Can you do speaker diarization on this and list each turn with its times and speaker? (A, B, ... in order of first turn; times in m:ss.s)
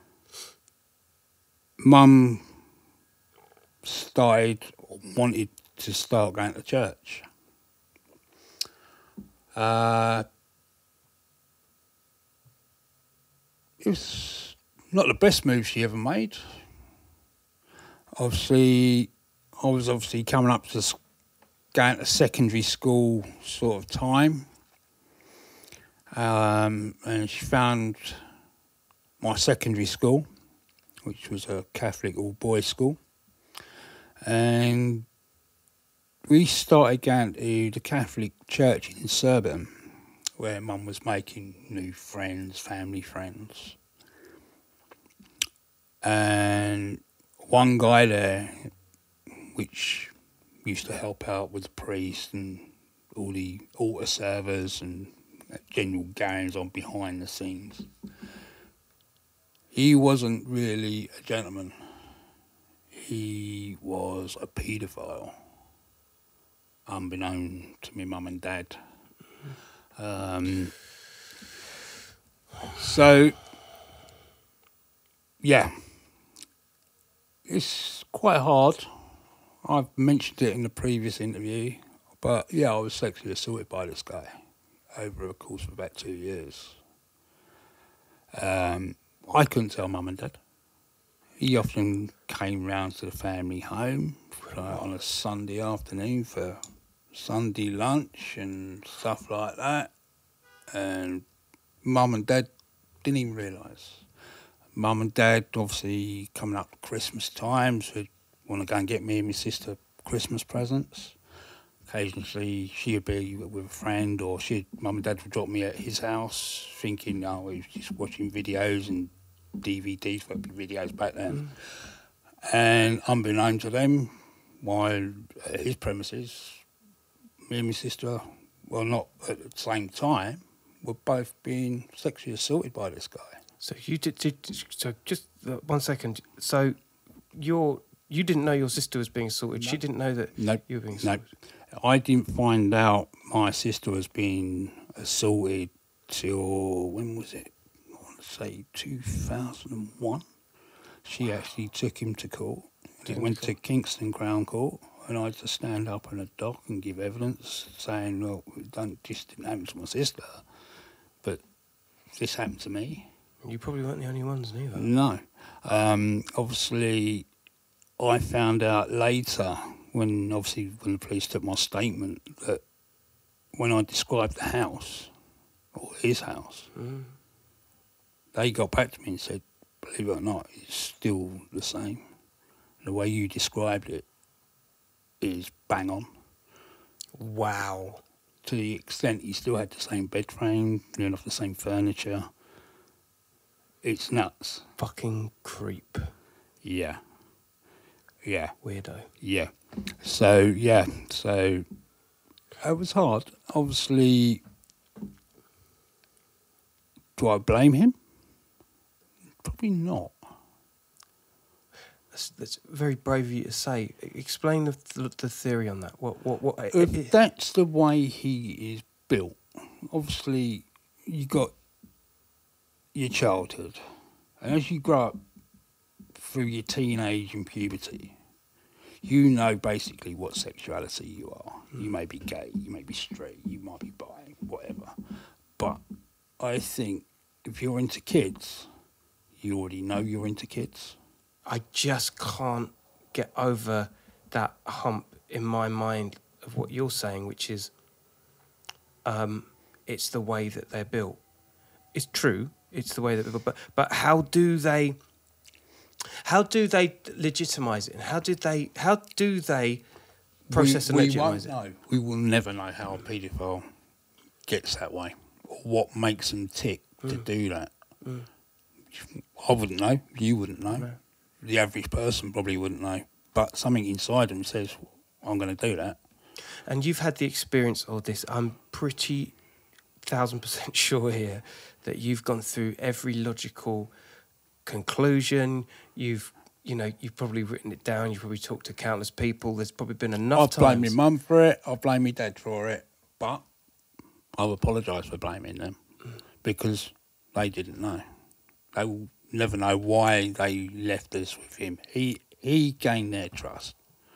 0:01.8-0:02.5 A
0:03.8-0:07.2 A
0:09.6-0:10.3 A
0:13.8-0:16.4 A
0:18.2-0:21.0 A
0:21.7-0:24.5 A
0:26.1-0:28.2 A
0:29.2-0:30.3 A
0:31.0-0:33.0 A
0:34.2-0:35.1 A
0:36.3-0:39.9 A
0:40.4-0:43.8 A
0:46.0-0:48.7 A
0:49.4-0:50.1 A
0:50.6-0:57.9 A
0:59.7-1:01.8 A
1:02.9-1:05.4 A
1:06.9-1:08.8 A
1:10.0-1:10.8 A
1:12.7-1:13.4 A
1:15.4-1:15.8 A
1:17.5-1:18.9 A
1:19.6-1:24.3 A
1:24.9-1:26.8 A
1:28.3-1:30.4 A
1:31.4-1:36.6 A
1:37.1-1:39.9 A
1:40.7-1:41.2 A
1:41.8-1:42.5 A
1:43.0-1:44.0 A
1:44.8-1:51.2 A
1:51.9-2:01.8 A
2:02.4-2:06.6 A
2:07.5-2:13.4 A
2:13.6-2:16.8 B
2:17.3-2:21.3 B
2:20.4-2:30.2 A
2:31.0-2:40.4 A
2:33.1-2:33.5 B
2:42.1-2:43.1 A
2:43.4-2:44.9 B
2:44.8-2:47.3 A
2:48.0-2:52.6 A
2:53.5-2:55.1 A
2:55.7-2:56.7 A
2:56.8-2:57.1 B
2:58.3-3:02.0 A
3:02.8-3:04.0 A
3:05.2-3:06.1 A
3:07.2-3:08.0 B
3:08.4-3:12.3 A
3:13.8-3:14.7 A
3:14.8-3:16.1 B
3:16.6-3:17.0 A
3:18.2-3:18.5 A
3:18.6-3:19.1 B
3:19.2-3:21.7 A
3:22.6-3:24.4 A
3:27.2-3:28.0 A
3:29.4-3:30.2 A
3:32.1-3:37.1 B
3:36.7-3:41.5 A
3:42.9-3:43.8 A
3:44.4-3:45.2 A
3:46.2-3:48.2 A
3:49.0-3:54.9 A
3:56.4-3:58.7 A
3:59.4-4:01.0 A
4:01.5-4:07.7 B
4:09.0-4:11.2 B
4:11.9-4:15.0 B
4:16.2-4:19.8 B
4:20.5-4:21.5 B
4:20.5-4:23.6 A
4:24.5-4:27.7 A
4:28.9-4:30.9 A
4:31.4-4:36.0 A
4:36.7-4:39.4 B
4:40.0-4:43.9 B
4:44.7-4:51.0 B
4:50.4-4:53.4 A
4:54.4-4:55.8 A
4:56.4-4:58.0 A
4:58.7-5:03.8 A